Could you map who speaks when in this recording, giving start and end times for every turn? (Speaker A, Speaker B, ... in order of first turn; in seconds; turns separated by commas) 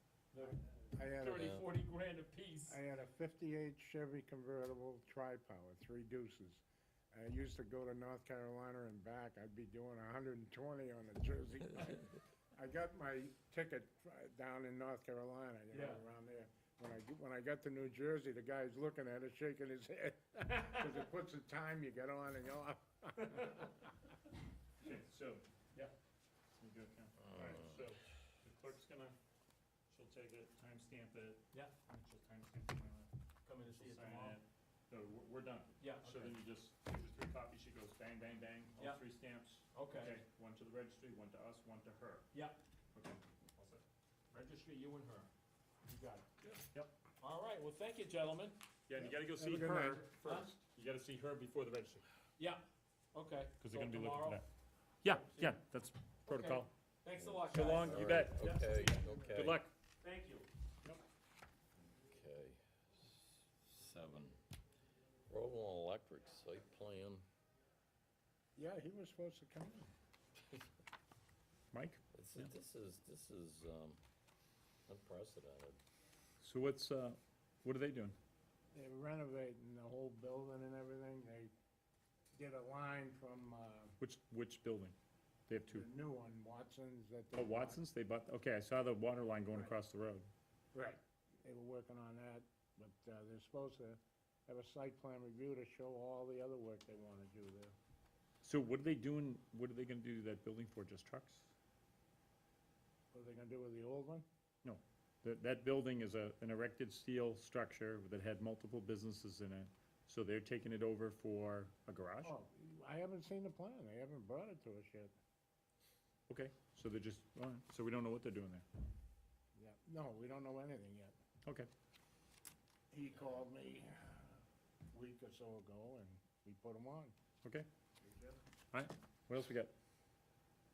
Speaker A: 0.3-2.8, Speaker B: 0.9-1.6, Speaker C: 1.3-1.7, Speaker B: 2.7-23.7, Speaker A: 15.7-16.0, Speaker A: 23.3-23.7, Speaker D: 24.8-25.4, Speaker D: 26.5-29.2, Speaker C: 27.2-27.9, Speaker B: 27.4-27.6, Speaker D: 29.9-33.1, Speaker A: 33.5-34.4, Speaker D: 33.7-42.3, Speaker A: 35.8-36.4, Speaker A: 38.8-39.0, Speaker A: 39.7-40.2, Speaker A: 42.3-42.6, Speaker D: 42.9-43.8, Speaker A: 44.3-45.3, Speaker A: 45.9-46.6, Speaker A: 47.2-48.6, Speaker D: 48.9-52.0, Speaker B: 49.0-50.1, Speaker A: 50.1-50.5, Speaker A: 52.4-54.5, Speaker D: 53.6-54.5, Speaker D: 55.0-56.7, Speaker A: 55.1-55.6, Speaker A: 56.3-59.1, Speaker C: 57.2-59.6, Speaker D: 57.5-58.5, Speaker D: 59.3-59.7, Speaker A: 60.0-60.5, Speaker C: 62.1-64.4, Speaker C: 65.3-67.2, Speaker B: 68.6-69.9, Speaker D: 71.7-72.5, Speaker C: 72.1-74.0, Speaker C: 74.9-75.8, Speaker D: 76.4-78.2, Speaker B: 78.7-81.5, Speaker B: 82.3-84.0, Speaker D: 84.0-85.0, Speaker D: 85.5-85.9, Speaker B: 85.7-87.8, Speaker D: 87.3-90.3, Speaker B: 90.7-97.8, Speaker D: 98.4-101.5, Speaker B: 103.1-104.3, Speaker D: 104.6-112.3, Speaker B: 112.2-115.1, Speaker D: 116.3-118.7, Speaker B: 119.5-121.2, Speaker B: 122.9-127.2, Speaker B: 128.0-128.4, Speaker D: 128.7-129.7